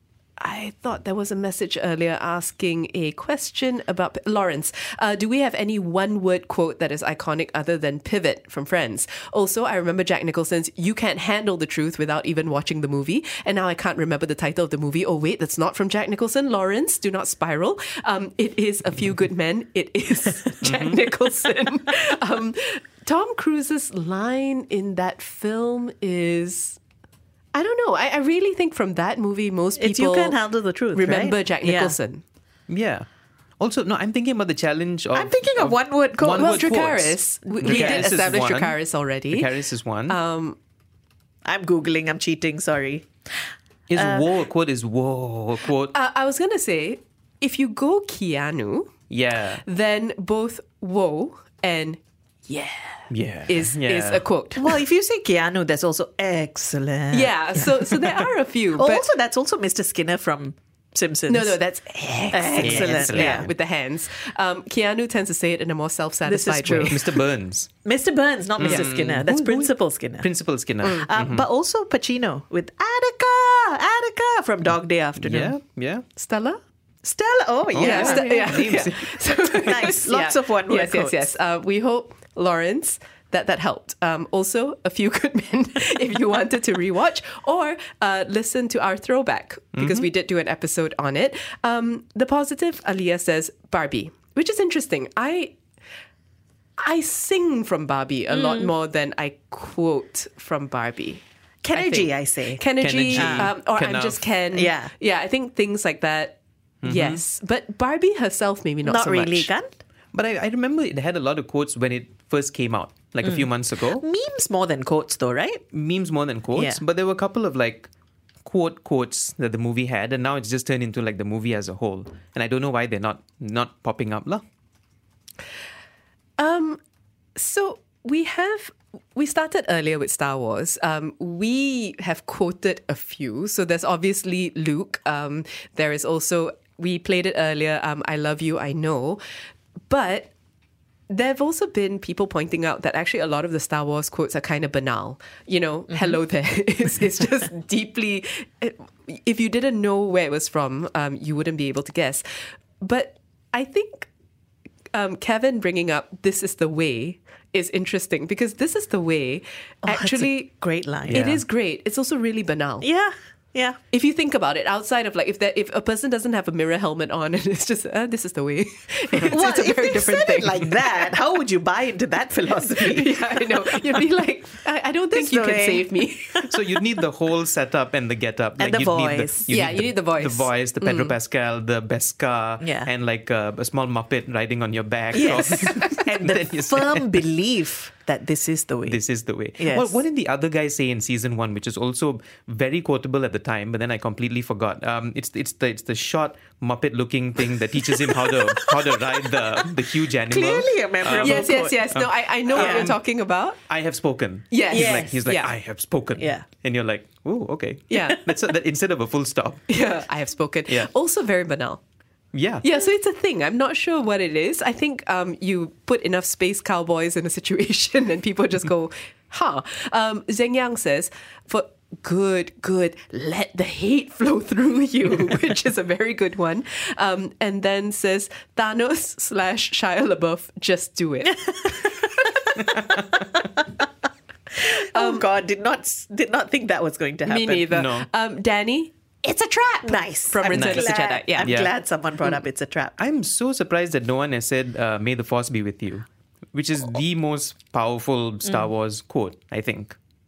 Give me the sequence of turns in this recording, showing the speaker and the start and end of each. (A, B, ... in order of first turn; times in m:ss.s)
0:00.4-0:26.8 A
0:20.6-0:21.0 B
0:27.5-0:30.4 A
0:29.8-0:32.0 C
0:30.9-0:32.2 A
0:32.7-0:33.1 B
0:33.6-0:38.8 B
0:35.1-0:36.7 C
0:36.3-0:39.5 A
0:37.6-0:38.1 C
0:39.3-0:40.2 B
0:40.1-0:40.6 A
0:41.4-0:43.1 C
0:43.9-0:45.9 B
0:44.0-0:44.3 C
0:45.9-0:48.9 A
0:49.1-0:49.6 B
0:49.6-0:54.6 A
0:53.1-0:54.2 B
0:54.6-1:01.6 C
0:57.1-0:59.0 A
1:01.3-1:07.0 A
1:02.3-1:03.5 C
1:02.6-1:03.5 B
1:06.3-1:07.1 C
1:06.7-1:07.7 B
1:07.8-1:10.3 C
1:08.6-1:11.5 B
1:10.8-1:15.6 C
1:15.2-1:16.0 B
1:16.2-1:16.6 A
1:17.0-1:18.8 C
1:17.7-1:19.2 B
1:17.8-1:35.5 A
1:19.6-1:21.3 C
1:29.8-1:30.1 B
1:36.8-1:41.2 A
1:38.3-1:38.7 C
1:41.6-1:43.5 C
1:41.7-1:49.5 A
1:42.8-1:44.2 B
1:44.5-1:44.9 C
1:46.8-1:47.2 B
1:48.8-1:49.7 C
1:50.1-1:54.0 B
1:53.2-1:55.6 C
1:55.7-1:57.9 B
1:56.5-1:56.8 C
1:58.5-2:04.4 B
2:06.4-2:06.8 A
2:07.4-2:19.2 A
2:19.9-2:20.3 A
2:21.1-2:32.2 A
2:32.8-2:34.1 A
2:34.9-2:40.5 A
2:39.8-2:41.2 C
2:41.1-2:42.9 A
2:41.1-2:41.4 B
2:42.8-2:43.8 C
2:43.9-2:50.8 A
2:49.3-2:54.0 C
2:52.7-2:56.5 A
2:55.1-2:55.9 C
2:56.5-3:07.2 B
2:58.6-2:59.5 C
2:59.5-3:01.1 A
3:02.6-3:02.9 C
3:05.1-3:09.0 C
3:08.9-3:23.0 B
3:09.6-3:10.0 C
3:18.2-3:19.4 C
3:20.3-3:21.9 C
3:21.1-3:23.6 A
3:22.5-3:22.9 C
3:23.7-3:29.6 B
3:24.5-3:25.5 A
3:24.7-3:25.2 C
3:26.2-3:26.4 C
3:27.9-3:28.2 A
3:29.7-3:31.8 A
3:32.3-3:32.6 B
3:32.6-3:51.6 A
3:54.6-3:57.7 C
3:54.7-3:55.2 A
3:57.3-3:58.9 A
3:57.7-3:58.1 B
3:59.2-4:03.0 C
3:59.6-4:01.5 A
4:00.5-4:01.7 B
4:03.0-4:10.0 B